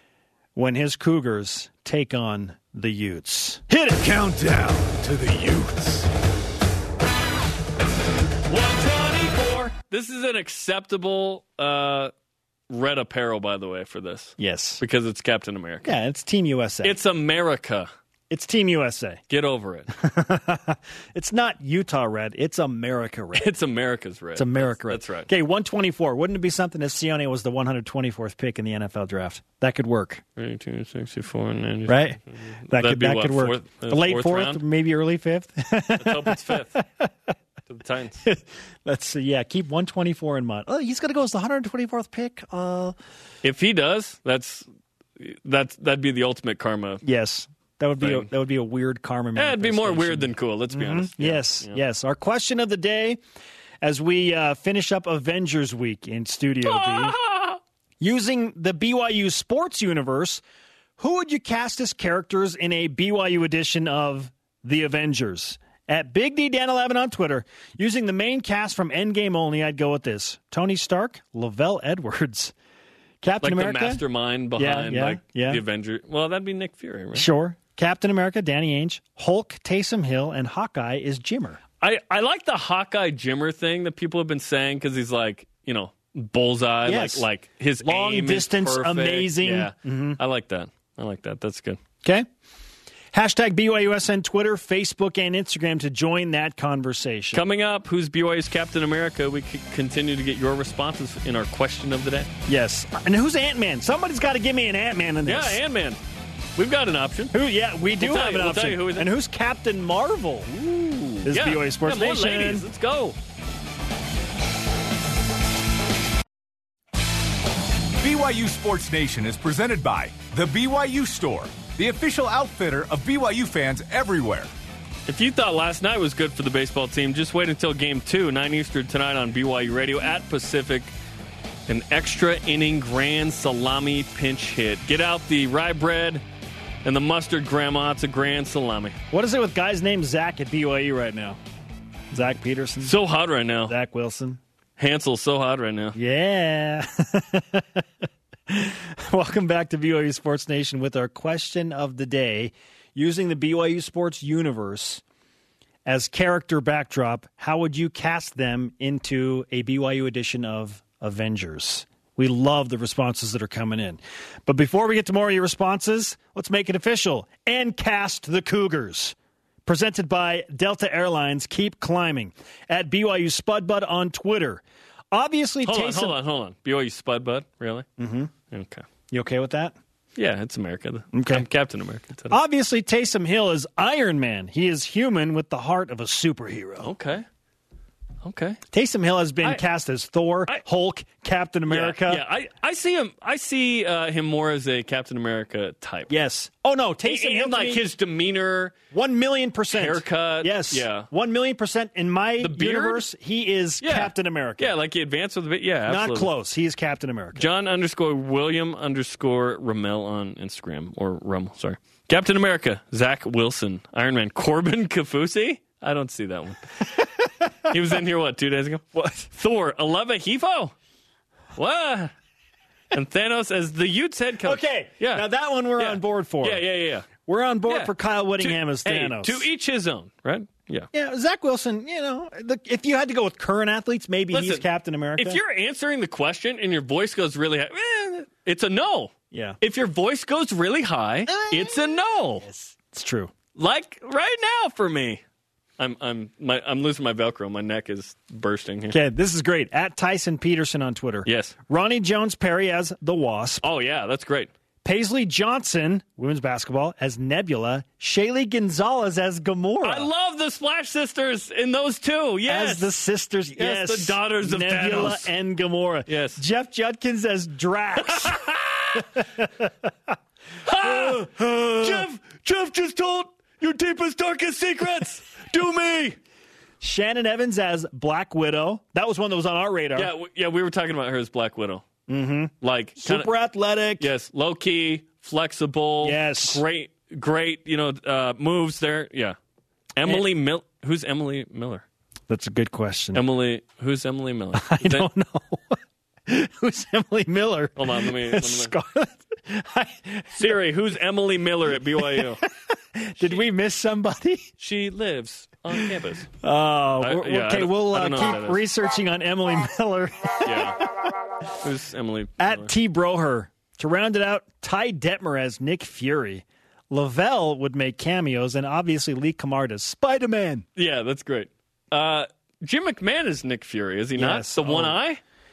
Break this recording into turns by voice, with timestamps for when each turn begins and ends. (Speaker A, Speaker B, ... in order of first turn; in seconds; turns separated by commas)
Speaker A: 0.6-4.0, Speaker B: 3.9-6.1, Speaker C: 8.5-12.1, Speaker C: 12.7-15.9, Speaker A: 14.4-14.8, Speaker A: 15.8-17.0, Speaker C: 16.8-17.9, Speaker A: 18.3-19.2, Speaker C: 19.3-19.9, Speaker A: 19.9-23.5, Speaker C: 23.4-25.3, Speaker A: 24.4-30.2, Speaker C: 30.4-34.6, Speaker A: 31.9-37.1, Speaker C: 36.0-36.8, Speaker C: 37.7-38.2, Speaker A: 38.2-43.0, Speaker C: 43.4-44.7, Speaker C: 45.2-47.0, Speaker A: 47.0-53.2, Speaker C: 48.0-48.3, Speaker C: 49.4-51.8, Speaker A: 53.8-57.2, Speaker C: 56.6-57.6, Speaker A: 58.0-60.4, Speaker A: 61.0-72.5, Speaker A: 73.2-74.0, Speaker C: 73.4-77.3, Speaker A: 74.6-75.6, Speaker A: 77.1-81.6, Speaker C: 81.8-91.8, Speaker A: 86.9-87.3, Speaker A: 87.8-90.2, Speaker A: 93.1-97.4, Speaker C: 97.3-102.3, Speaker A: 102.5-105.6, Speaker C: 105.2-106.0, Speaker C: 106.6-107.4, Speaker A: 107.3-110.5, Speaker C: 108.0-109.1, Speaker C: 110.5-113.2, Speaker A: 111.2-112.7, Speaker B: 118.0-124.5, Speaker C: 125.1-130.9, Speaker C: 131.7-136.2, Speaker C: 136.8-139.0, Speaker A: 139.1-141.4, Speaker A: 142.1-142.9, Speaker C: 142.8-143.8, Speaker A: 143.7-144.4, Speaker C: 144.8-146.0, Speaker A: 146.0-147.8, Speaker A: 148.5-155.0, Speaker A: 155.8-176.2, Speaker C: 175.7-177.9, Speaker A: 178.0-178.3, Speaker C: 178.5-178.8, Speaker A: 179.1-179.8, Speaker C: 180.2-182.4, Speaker A: 181.1-181.5, Speaker A: 182.3-186.9, Speaker C: 186.8-187.3, Speaker C: 188.2-188.6, Speaker A: 188.7-192.2, Speaker C: 191.7-196.1, Speaker A: 196.1-197.8, Speaker C: 197.1-198.8, Speaker A: 198.9-204.7, Speaker C: 199.7-201.1, Speaker C: 202.4-203.1, Speaker C: 203.8-206.3, Speaker A: 205.9-207.5, Speaker C: 207.3-216.9, Speaker C: 217.7-220.7, Speaker A: 218.9-219.3, Speaker C: 221.6-222.1, Speaker C: 222.9-225.2, Speaker A: 224.4-229.5, Speaker C: 225.8-227.1, Speaker C: 227.7-230.9, Speaker A: 230.9-235.4, Speaker C: 234.3-234.7, Speaker C: 235.2-242.5, Speaker A: 239.3-239.6, Speaker A: 241.3-243.3, Speaker C: 243.6-245.2, Speaker C: 245.8-249.0, Speaker A: 248.9-253.6, Speaker C: 251.2-251.6, Speaker C: 253.6-254.5, Speaker A: 254.8-260.1, Speaker C: 259.8-262.9, Speaker A: 262.5-268.4, Speaker C: 263.6-265.3, Speaker C: 266.1-266.4, Speaker C: 268.1-269.2, Speaker A: 268.9-269.9, Speaker C: 270.6-276.2, Speaker A: 270.8-272.1, Speaker A: 276.8-280.1, Speaker C: 279.9-281.9, Speaker A: 282.1-284.1, Speaker C: 282.6-283.3, Speaker C: 284.0-289.4, Speaker A: 286.0-286.6, Speaker C: 290.0-291.9, Speaker A: 292.3-293.2, Speaker C: 293.1-295.1, Speaker A: 294.6-300.6, Speaker C: 297.8-298.7, Speaker C: 300.4-302.4, Speaker A: 302.0-304.5, Speaker C: 304.6-306.3, Speaker A: 305.7-311.1, Speaker C: 307.0-308.6, Speaker C: 310.4-310.9, Speaker C: 311.6-312.7, Speaker A: 312.4-320.7, Speaker C: 320.8-325.2, Speaker A: 324.2-325.0